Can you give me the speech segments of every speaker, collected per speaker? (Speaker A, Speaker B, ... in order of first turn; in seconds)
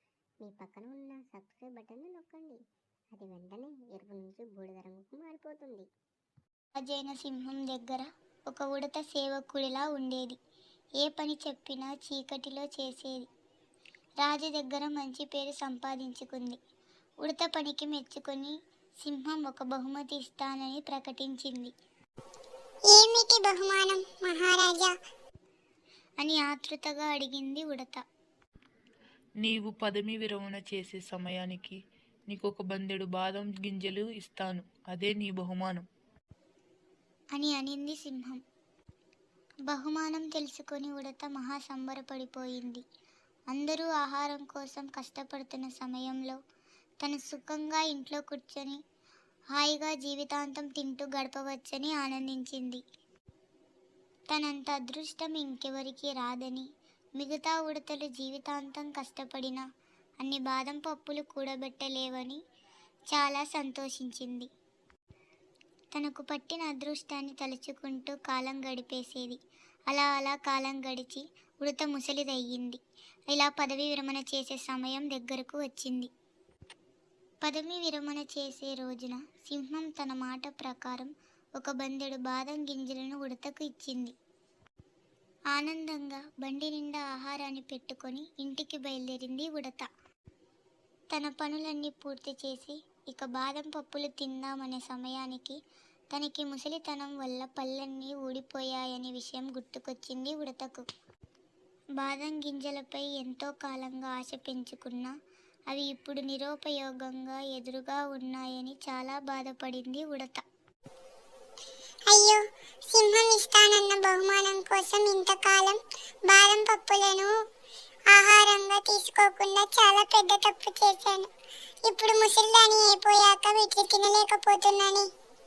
Speaker A: 0.4-2.6, 3.1-5.9
Speaker B: 6.8-10.4, 11.0-13.3, 14.2-16.6, 17.2-21.7, 26.2-28.0, 37.4-38.4, 39.7-42.8, 43.5-46.4, 47.0-48.8, 49.5-52.8, 54.3-56.7, 57.2-59.6, 60.2-62.4, 63.1-64.5, 65.9-69.4, 69.9-72.8, 73.3-76.1, 77.4-84.1, 85.5-89.9, 91.1-95.6, 96.1-100.9, 102.0-105.1, 105.7-110.4
Speaker C: 22.9-24.9, 112.1-117.3, 118.1-121.3, 121.8-125.1
Speaker D: 29.4-35.9